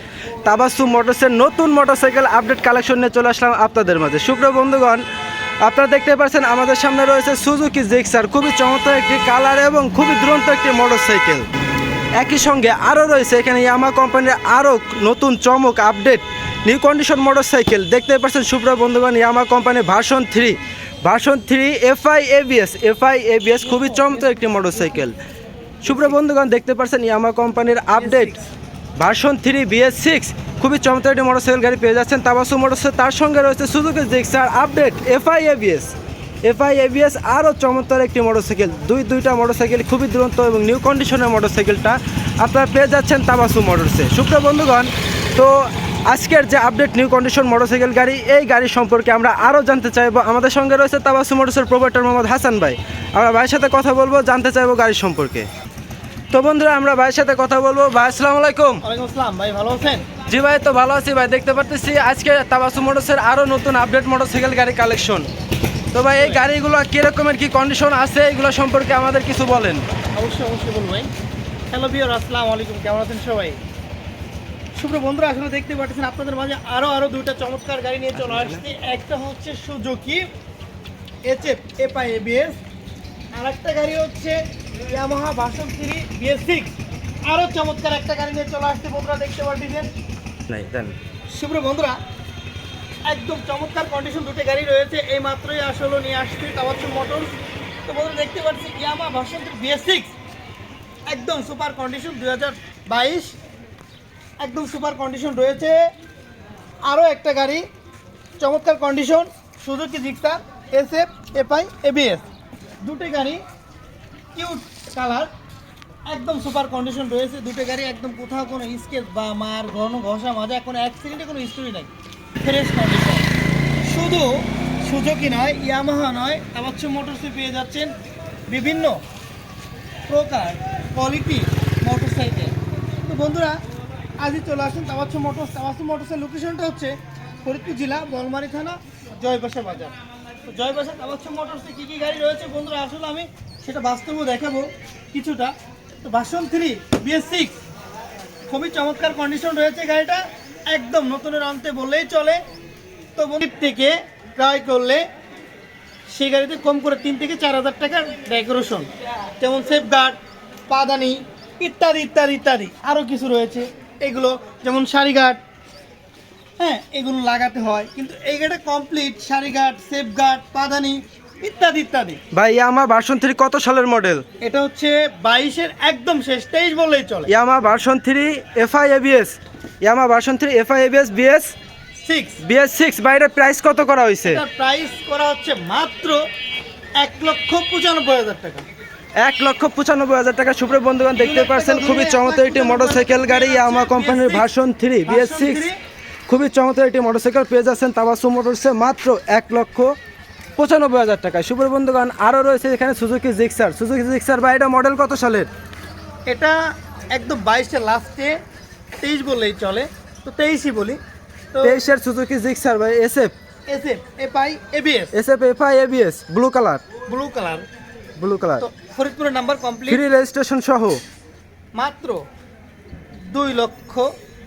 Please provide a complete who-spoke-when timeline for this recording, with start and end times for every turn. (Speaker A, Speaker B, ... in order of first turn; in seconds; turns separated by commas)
Speaker A: 0.5-5.0, Speaker A: 5.6-11.5, Speaker A: 12.2-25.2, Speaker B: 23.6-25.0, Speaker A: 25.8-28.4, Speaker B: 28.0-28.5, Speaker A: 29.0-35.9, Speaker A: 36.4-55.5, Speaker A: 56.3-58.8, Speaker B: 58.8-60.1, Speaker A: 60.3-65.3, Speaker A: 65.9-69.8, Speaker B: 66.2-66.4, Speaker B: 70.2-71.1, Speaker B: 71.7-73.6, Speaker B: 74.8-80.3, Speaker A: 78.2-78.6, Speaker B: 81.2-82.6, Speaker B: 83.3-84.4, Speaker B: 84.9-89.9, Speaker A: 90.5-91.0, Speaker B: 91.3-92.0, Speaker B: 93.1-97.3, Speaker B: 97.9-100.2, Speaker B: 101.1-103.4, Speaker B: 104.4-105.8, Speaker B: 106.8-107.7, Speaker B: 108.4-112.2, Speaker B: 112.8-113.4, Speaker B: 114.3-115.3, Speaker B: 116.1-121.9, Speaker B: 122.4-123.3, Speaker B: 123.8-127.9, Speaker B: 128.5-129.0, Speaker B: 130.1-133.6, Speaker B: 134.2-139.9, Speaker B: 140.5-147.6, Speaker B: 148.5-152.4, Speaker B: 153.2-155.0, Speaker B: 156.1-158.9, Speaker B: 159.4-160.2, Speaker B: 160.7-165.4, Speaker B: 166.6-172.2, Speaker A: 172.3-174.2, Speaker B: 174.4-177.3, Speaker A: 177.3-181.5, Speaker B: 182.0-182.4, Speaker A: 182.4-184.4, Speaker B: 184.2-186.2, Speaker B: 187.0-188.7, Speaker A: 189.2-195.7, Speaker B: 191.2-194.5, Speaker B: 195.1-195.8, Speaker A: 196.3-199.9, Speaker A: 200.6-205.5, Speaker B: 206.3-206.6, Speaker B: 207.1-208.4, Speaker B: 209.0-211.0, Speaker B: 211.5-211.8, Speaker A: 211.6-213.3, Speaker B: 213.7-215.1, Speaker A: 215.1-216.8, Speaker B: 217.1-217.7, Speaker A: 218.2-218.7, Speaker B: 218.6-220.0, Speaker A: 219.9-221.0, Speaker B: 221.8-222.2, Speaker B: 223.3-224.1